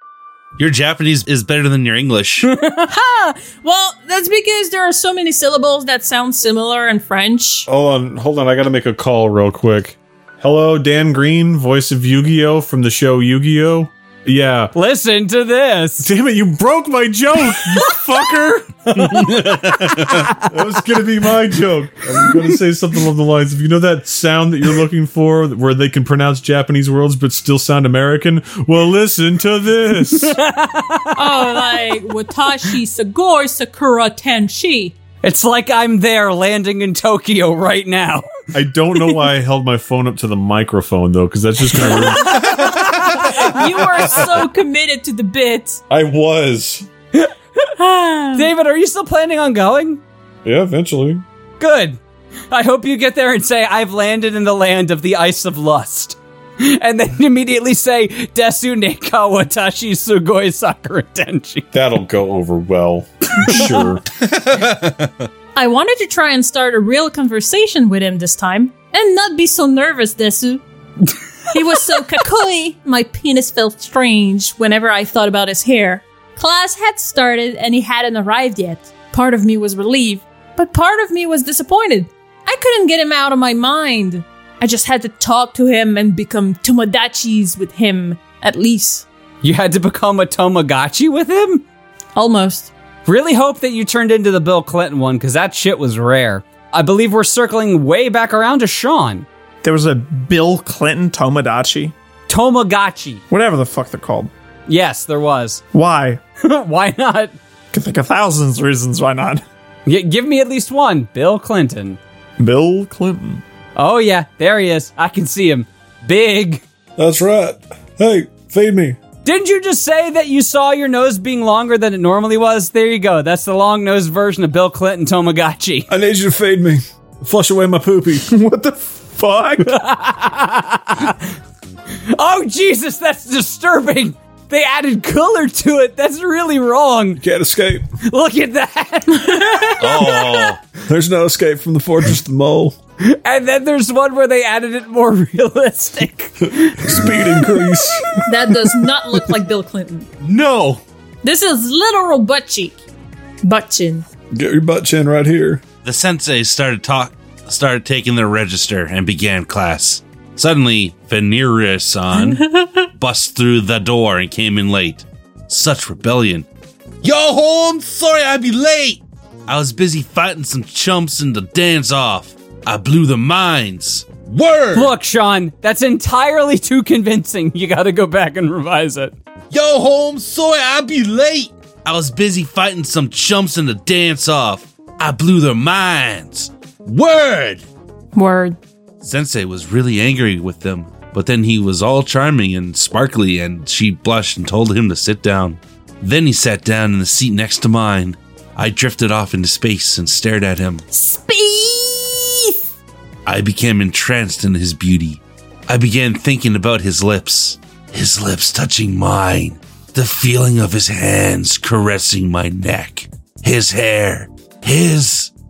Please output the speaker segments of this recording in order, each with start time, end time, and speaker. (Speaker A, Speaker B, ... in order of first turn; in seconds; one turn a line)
Speaker A: 0.6-2.5
Speaker B: 2.5-2.9
Speaker C: 2.9-7.7
Speaker D: 7.7-14.7
Speaker B: 14.8-16.1
Speaker D: 16.0-19.5
Speaker B: 19.0-19.3
Speaker A: 19.5-19.8
Speaker D: 20.4-30.4
Speaker B: 30.2-32.0
Speaker C: 31.2-35.0
Speaker B: 35.2-38.3
Speaker D: 38.5-44.1
Speaker B: 41.9-43.5
Speaker C: 43.4-45.8
Speaker D: 45.9-46.9
Speaker B: 47.1-47.6
Speaker C: 47.8-48.5
Speaker B: 48.3-50.0
Speaker D: 50.5-51.2
Speaker B: 51.6-52.0
Speaker B: 52.5-61.7
Speaker D: 61.7-64.0
Speaker B: 63.4-63.7
Speaker A: 64.2-65.1
Speaker C: 65.5-70.6
Speaker C: 71.5-89.1
Speaker B: 89.4-91.6
Speaker C: 92.2-92.7
Speaker B: 93.1-99.3
Speaker E: 99.6-101.9
Speaker B: 102.3-103.2
Speaker E: 103.3-104.3
Speaker B: 104.7-105.6
Speaker E: 105.7-106.2
Speaker B: 106.4-107.4
Speaker E: 107.7-109.4
Speaker B: 109.9-112.0
Speaker E: 112.4-113.4
Speaker B: 113.8-116.6
Speaker D: 117.0-119.0
Speaker B: 119.2-125.9
Speaker D: 125.9-128.3
Speaker E: 128.3-129.7
Speaker B: 129.7-131.2
Speaker B: 132.1-137.2
Speaker D: 137.2-137.9
Speaker B: 138.0-140.0
Speaker C: 139.2-140.0
Speaker A: 139.8-140.6
Speaker D: 140.9-142.8
Speaker B: 143.0-147.8
Speaker D: 146.5-148.2
Speaker C: 148.2-150.1
Speaker A: 150.2-150.8
Speaker C: 151.2-152.8
Speaker C: 153.4-154.1
Speaker D: 154.3-155.6
Speaker A: 155.8-166.5
Speaker C: 162.2-162.8
Speaker A: 167.0-174.9
Speaker B: 174.7-179.1
Speaker A: 179.5-187.7
Speaker C: 188.1-188.6
Speaker A: 189.0-200.8
Speaker C: 200.9-202.6
Speaker A: 203.3-215.3